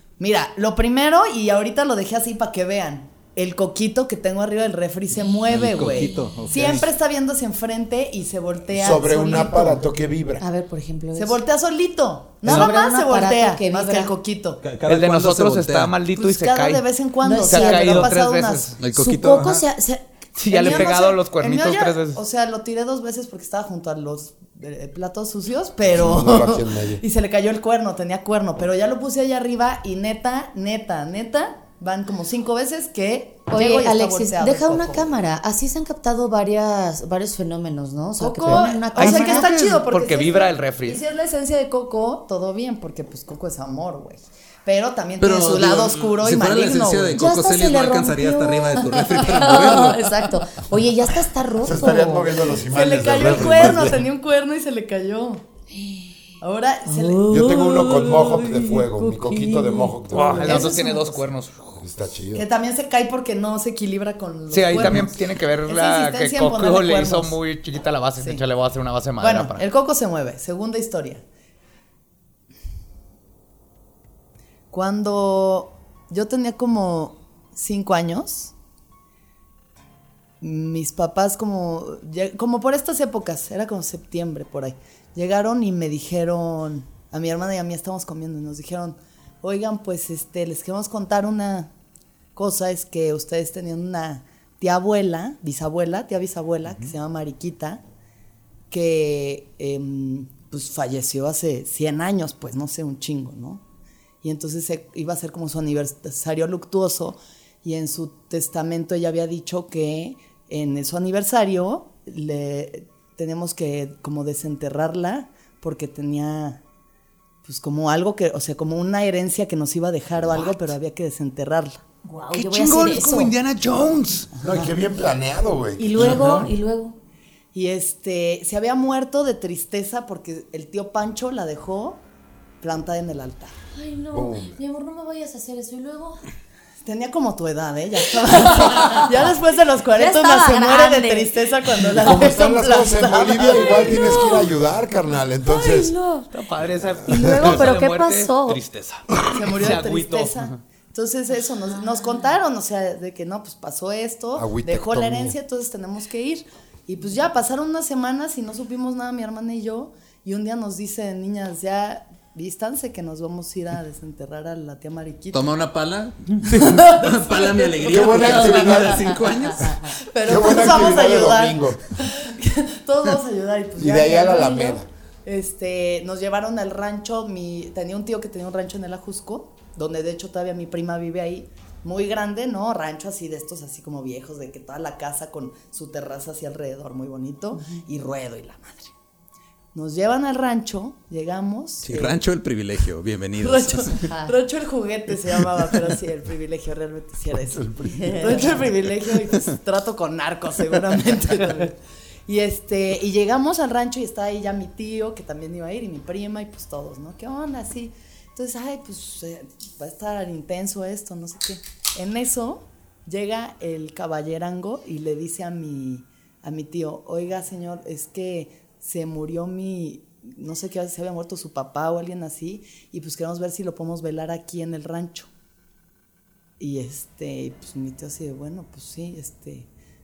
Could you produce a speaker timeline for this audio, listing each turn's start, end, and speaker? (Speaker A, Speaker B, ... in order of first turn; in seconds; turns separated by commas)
Speaker A: 0.2-9.8, Speaker B: 5.5-6.9, Speaker C: 8.7-10.4, Speaker D: 10.4-11.4, Speaker A: 11.2-14.6, Speaker D: 12.4-14.1, Speaker B: 14.6-15.9, Speaker E: 14.9-16.9, Speaker A: 16.1-18.8, Speaker D: 17.2-18.1, Speaker E: 17.4-18.8, Speaker B: 18.8-19.6, Speaker D: 18.9-20.9, Speaker E: 20.4-22.2, Speaker A: 20.5-35.1, Speaker C: 25.9-27.0, Speaker D: 33.5-39.5, Speaker A: 38.2-47.2, Speaker E: 38.5-41.0, Speaker B: 45.2-50.1, Speaker D: 47.1-52.4, Speaker C: 51.6-54.1, Speaker A: 52.7-55.4, Speaker D: 55.7-56.1, Speaker A: 56.4-57.3, Speaker D: 56.9-61.0, Speaker C: 57.3-60.7, Speaker E: 60.1-61.8, Speaker A: 60.4-61.2, Speaker C: 61.8-62.5, Speaker A: 62.4-67.4, Speaker E: 64.5-69.6, Speaker A: 69.2-71.2, Speaker A: 74.7-78.5, Speaker A: 80.4-91.7, Speaker A: 92.3-97.8, Speaker A: 98.7-103.6, Speaker A: 104.2-116.6, Speaker A: 117.4-121.8, Speaker D: 122.0-123.3, Speaker E: 122.3-124.3, Speaker A: 124.4-124.7, Speaker C: 124.4-126.2, Speaker D: 125.8-127.0, Speaker B: 126.1-126.5, Speaker A: 127.5-132.0, Speaker A: 132.6-133.6, Speaker D: 133.7-136.2, Speaker C: 134.1-134.6, Speaker A: 136.8-144.2, Speaker D: 138.3-139.1, Speaker D: 139.9-141.4, Speaker C: 141.9-145.9, Speaker D: 143.9-144.5, Speaker D: 145.4-146.3, Speaker E: 146.3-150.6, Speaker D: 147.1-148.6, Speaker C: 147.1-147.6, Speaker A: 149.3-165.5, Speaker C: 154.3-155.4, Speaker B: 165.3-169.9, Speaker A: 166.5-188.9, Speaker C: 167.8-169.2, Speaker C: 170.2-171.8, Speaker C: 173.8-174.9, Speaker A: 189.7-192.2, Speaker B: 191.8-194.0, Speaker A: 193.4-225.3, Speaker D: 193.9-194.3, Speaker C: 197.5-198.6, Speaker D: 197.9-198.7, Speaker A: 226.6-229.7